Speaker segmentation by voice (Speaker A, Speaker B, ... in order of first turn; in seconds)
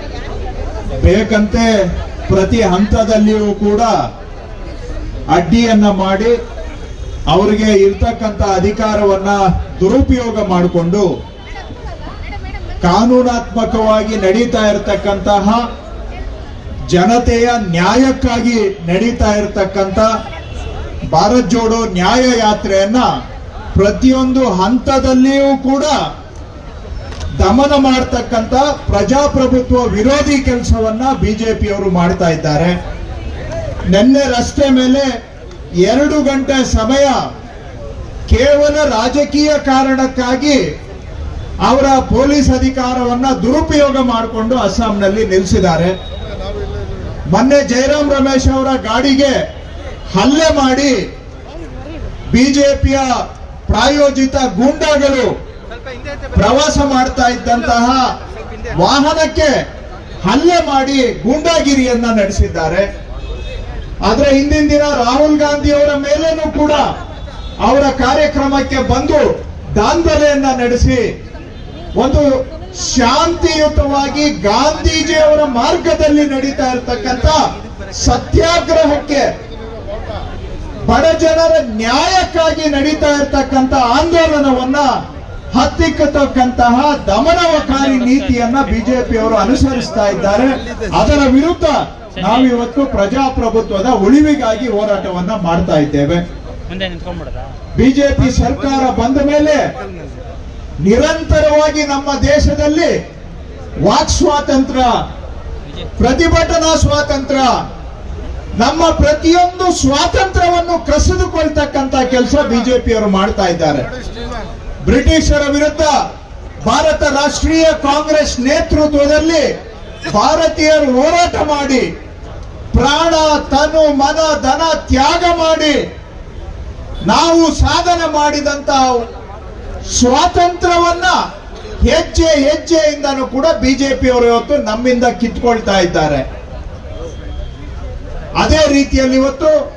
Speaker A: 1.0-1.7, 2.3-3.9, 5.3-6.3, 7.3-11.1, 12.8-15.6, 16.9-20.1, 21.1-23.1, 23.8-26.0, 27.4-32.8, 33.9-35.1, 35.8-37.2, 38.3-40.6, 41.6-46.0, 47.3-49.4, 50.1-51.0, 52.3-53.1, 53.7-55.3, 56.3-58.0, 58.7-59.5, 60.2-62.9, 64.0-66.9, 67.6-71.0, 72.0-77.4, 78.0-79.3, 80.9-84.9, 85.5-96.2, 97.8-99.7, 100.8-102.9, 103.8-105.0, 106.0-107.5, 108.6-113.9, 114.8-115.9, 116.7-119.5, 120.1-121.9, 122.7-125.8, 127.1-128.9, 129.9-131.2, 131.8-136.2, 138.4-139.6